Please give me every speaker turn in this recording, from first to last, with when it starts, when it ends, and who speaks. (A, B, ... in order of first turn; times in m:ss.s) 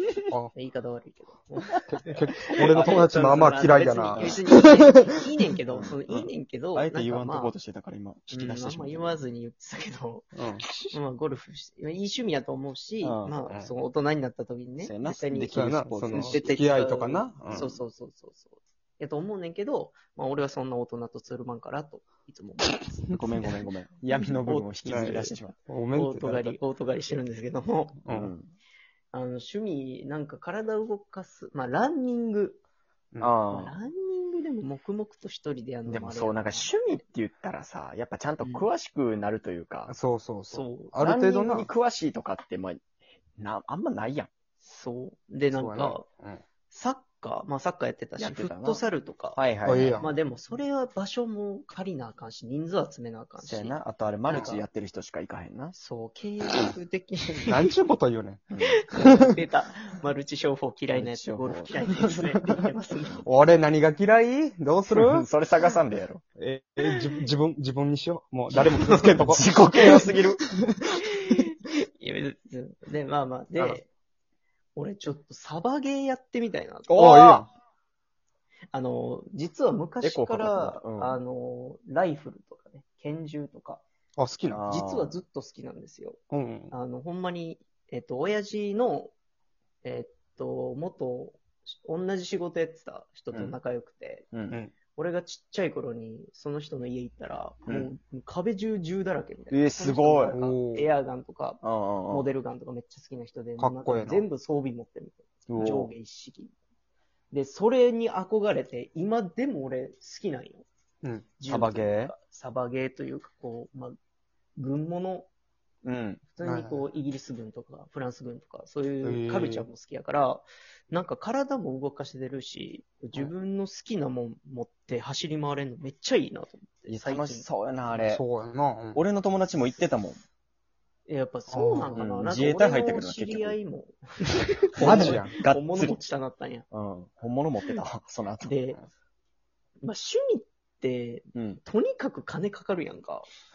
0:00.5-0:07.6 A
0:01.8-0:04.7 B
0:02.5-0:04.4 C
0:05.7-0:09.2 C
0:08.3-0:10.3 A
0:10.3-0:10.9 B
0:10.9-0:23.2 A
0:13.0-0:13.4 C
0:14.8-0:16.5 C
0:15.5-0:17.7 B
0:17.5-0:17.8 C
0:23.1-0:25.5 C
0:24.4-0:25.4 A
0:24.9-0:26.6 B
0:25.9-0:28.0 A
0:28.0-0:28.3 B
0:28.1-0:28.5 C
0:29.1-0:32.6 A
0:33.2-0:33.8 C
0:33.5-0:36.9 A
0:35.8-0:39.9 C
0:38.4-0:38.7 A
0:39.9-0:41.7 B
0:40.5-0:40.9 A
0:41.0-0:42.8 C
0:43.4-0:44.3 C
0:44.6-0:46.0 A
0:45.5-0:46.4 B
0:46.7-0:49.4 A
0:48.2-0:48.8 C
0:49.3-0:50.0 C
0:49.6-0:50.1 B
0:50.0-0:54.7 A
0:53.4-0:55.7 C
0:55.7-0:57.7 A
0:57.4-0:59.3 B
0:58.5-0:58.8 C
0:58.6-1:03.2 A
1:00.9-1:02.4 C
1:03.2-1:05.2 B
1:04.9-1:06.2 C
1:06.4-1:11.4 B
1:08.6-1:10.4 C
1:11.0-1:13.9 A
1:14.7-1:17.1 A
1:16.9-1:17.5 C
1:16.9-1:17.5 B
1:18.7-1:23.8 A
1:20.0-1:21.2 C
1:24.2-1:24.6 B
1:24.5-1:25.2 C
1:24.7-1:29.1 A
1:26.3-1:26.7 B
1:29.8-1:34.3 A
1:34.3-1:34.6 C
1:34.9-1:46.5 A
1:37.6-1:37.9 C
1:39.5-1:40.3 C
1:40.3-1:40.9 B
1:41.6-1:42.3 C
1:43.6-1:44.2 B
1:45.5-1:45.9 C
1:47.3-1:50.6 A
1:51.0-1:51.3 B
1:51.4-1:54.0 A
1:51.5-1:52.1 C
1:54.6-1:55.3 A
1:55.8-1:56.2 C
1:56.3-2:07.5 A
1:56.4-1:56.8 B
1:59.0-1:59.7 B
2:06.9-2:08.2 C
2:08.0-2:09.0 B
2:08.9-2:10.2 C
2:11.1-2:16.6 A
2:11.5-2:12.0 B
2:12.0-2:13.6 C
2:14.7-2:16.0 C
2:14.8-2:15.3 B
2:16.7-2:18.5 C
2:18.4-2:18.8 A
2:19.8-2:23.2 A
2:21.3-2:21.6 C